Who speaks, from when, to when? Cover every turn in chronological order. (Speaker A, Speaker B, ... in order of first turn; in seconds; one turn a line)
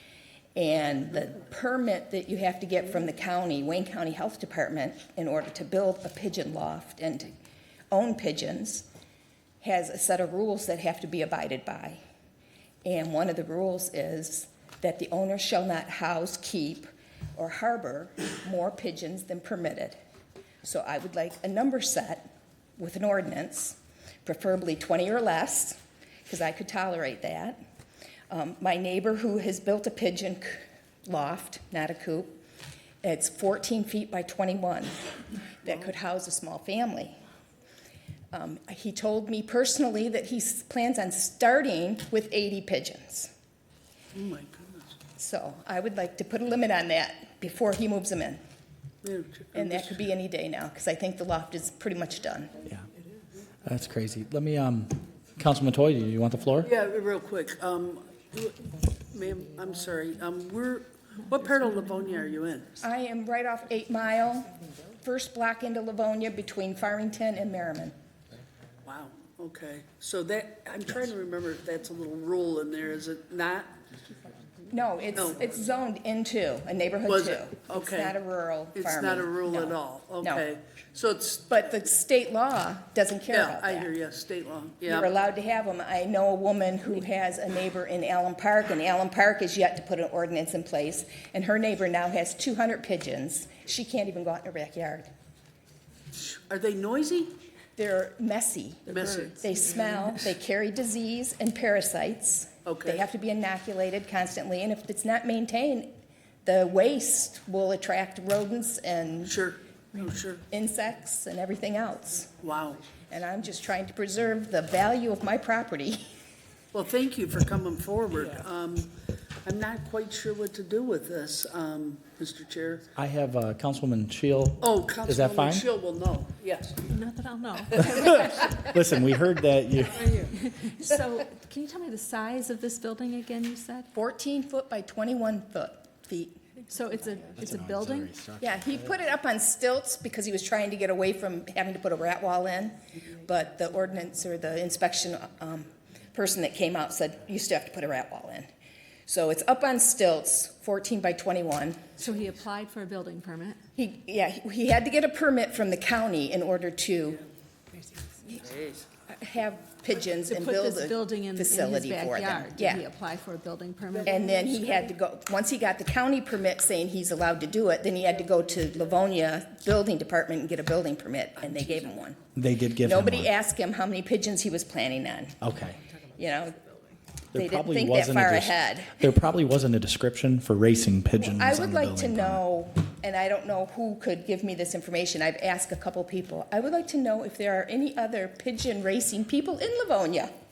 Speaker A: 0.6-7.3
Speaker A: 7.9-8.9
Speaker A: 9.6-12.0
Speaker A: 12.8-20.0
Speaker A: 20.6-22.3
Speaker A: 22.8-27.6
Speaker A: 28.3-32.4
Speaker A: 33.0-34.9
Speaker A: 35.5-37.2
Speaker A: 38.3-43.3
Speaker B: 44.1-45.0
Speaker A: 45.2-48.4
Speaker B: 49.0-50.1
Speaker A: 49.5-52.5
Speaker C: 53.6-56.7
Speaker B: 56.6-62.8
Speaker A: 62.8-64.5
Speaker A: 65.0-67.9
Speaker B: 68.8-73.7
Speaker A: 74.7-80.4
Speaker B: 75.1-75.4
Speaker B: 77.0-78.2
Speaker B: 78.7-81.5
Speaker A: 81.5-83.9
Speaker B: 83.3-85.1
Speaker A: 84.8-95.1
Speaker B: 96.1-97.3
Speaker A: 97.8-105.9
Speaker B: 98.9-99.3
Speaker D: 98.9-99.3
Speaker B: 102.7-103.0
Speaker A: 106.4-109.3
Speaker B: 109.2-110.4
Speaker A: 110.5-112.3
Speaker B: 112.4-112.9
Speaker A: 113.1-116.0
Speaker B: 116.7-122.8
Speaker C: 123.0-125.7
Speaker B: 124.6-126.8
Speaker D: 126.8-128.6
Speaker C: 128.5-130.2
Speaker D: 130.2-133.9
Speaker A: 133.9-136.4
Speaker D: 136.7-138.1
Speaker C: 137.4-138.8
Speaker A: 138.4-148.5
Speaker A: 149.1-151.9
Speaker D: 152.0-153.6
Speaker A: 153.8-157.2
Speaker A: 159.1-162.8
Speaker D: 160.3-164.3
Speaker A: 164.0-172.2
Speaker C: 172.3-173.3
Speaker A: 172.8-175.4
Speaker C: 175.4-175.8
Speaker A: 176.1-176.8
Speaker C: 177.3-182.4
Speaker A: 177.3-179.0
Speaker A: 181.2-190.3